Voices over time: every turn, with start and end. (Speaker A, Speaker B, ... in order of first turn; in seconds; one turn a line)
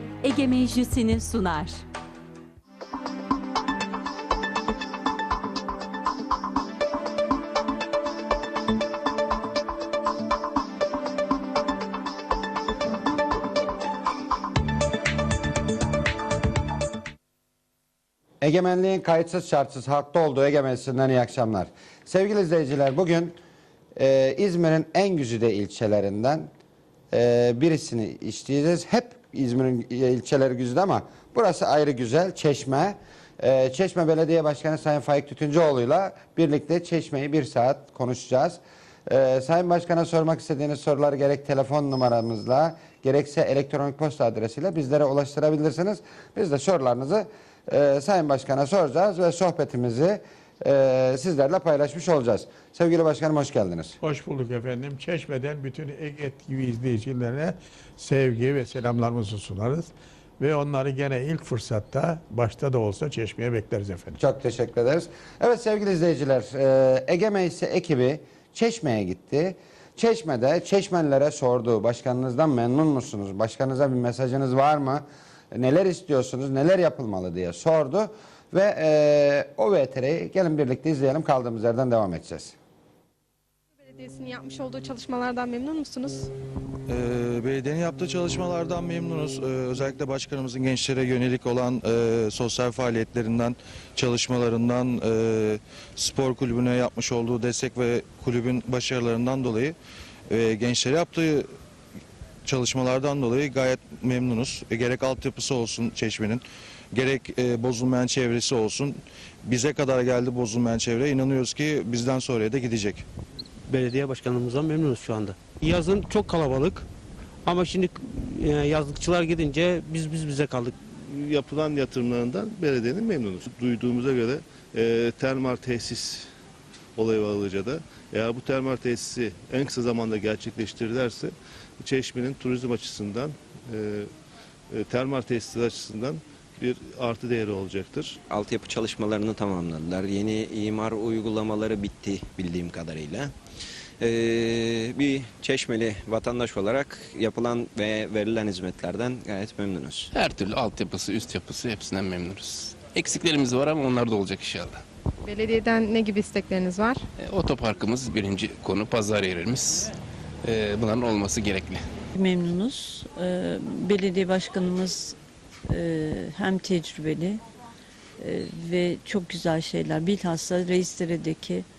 Speaker A: 18.4-23.3
Speaker A: 24.0-26.5
Speaker A: 27.1-54.0
Speaker B: 54.0-64.2
Speaker A: 64.2-82.6
Speaker C: 83.8-86.3
Speaker D: 86.9-99.8
Speaker D: 100.3-101.5
Speaker D: 102.5-113.0
Speaker E: 113.7-116.8
Speaker E: 117.5-120.7
Speaker F: 121.1-126.3
Speaker F: 127.0-134.1
Speaker F: 134.7-138.2
Speaker G: 138.3-143.3
Speaker G: 144.0-150.1
Speaker H: 150.1-154.8
Speaker C: 155.2-157.0
Speaker H: 157.2-159.9
Speaker H: 160.4-161.8
Speaker I: 162.2-165.2
Speaker I: 165.7-167.4
Speaker I: 168.2-171.7